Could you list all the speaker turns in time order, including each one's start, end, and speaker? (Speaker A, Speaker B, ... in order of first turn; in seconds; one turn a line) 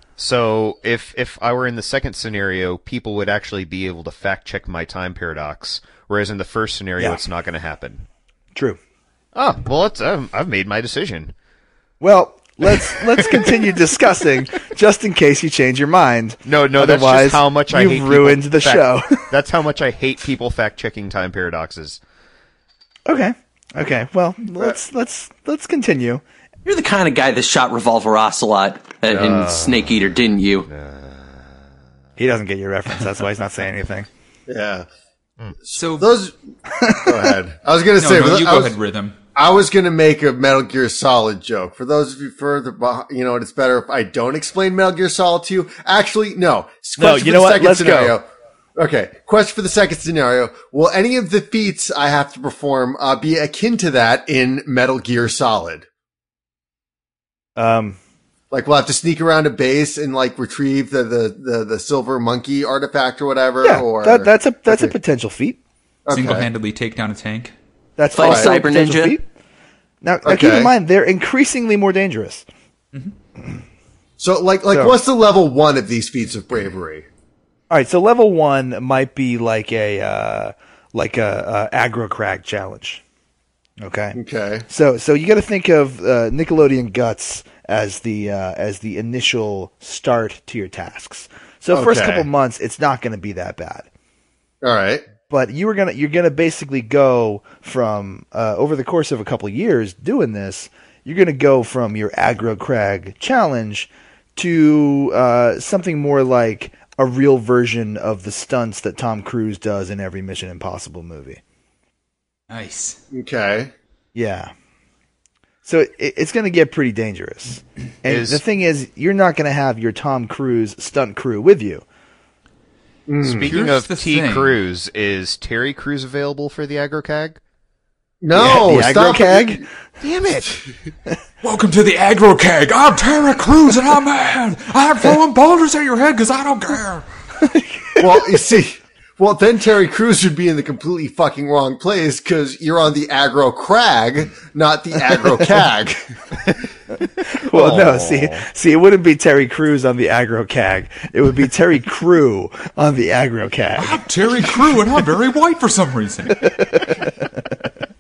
Speaker A: 0.2-8.1
Speaker A: 9.3-11.3
Speaker B: 12.0-19.3
Speaker A: 12.9-13.6
Speaker A: 16.4-22.0
Speaker B: 23.1-26.2
Speaker C: 26.6-30.7
Speaker A: 29.1-30.1
Speaker A: 30.7-31.6
Speaker B: 32.2-34.1
Speaker D: 34.5-34.9
Speaker D: 35.6-36.3
Speaker E: 35.7-36.1
Speaker B: 36.7-37.3
Speaker D: 36.9-38.8
Speaker E: 38.0-39.2
Speaker D: 39.4-55.9
Speaker B: 47.0-48.2
Speaker B: 57.6-58.0
Speaker D: 58.5-65.0
Speaker B: 63.6-65.6
Speaker D: 66.1-66.5
Speaker E: 66.1-67.5
Speaker B: 68.0-69.2
Speaker C: 68.1-69.2
Speaker D: 68.2-68.5
Speaker B: 70.0-72.5
Speaker D: 70.2-70.7
Speaker D: 74.2-77.1
Speaker B: 74.7-75.0
Speaker B: 77.7-83.0
Speaker B: 83.8-84.2
Speaker D: 84.2-84.7
Speaker B: 84.7-93.9
Speaker D: 91.7-92.3
Speaker D: 94.6-95.1
Speaker B: 95.3-111.4
Speaker E: 112.5-113.0
Speaker D: 113.1-113.7
Speaker B: 114.2-114.5
Speaker B: 115.7-121.8
Speaker A: 118.1-118.4
Speaker D: 123.1-123.5
Speaker A: 123.2-127.4
Speaker E: 123.4-124.5
Speaker D: 128.2-129.7
Speaker B: 128.3-129.6
Speaker A: 130.0-130.6
Speaker E: 131.4-137.1
Speaker B: 137.4-138.3
Speaker D: 138.0-146.0
Speaker A: 147.3-148.4
Speaker B: 147.3-154.7
Speaker E: 153.8-156.6
Speaker B: 156.4-157.3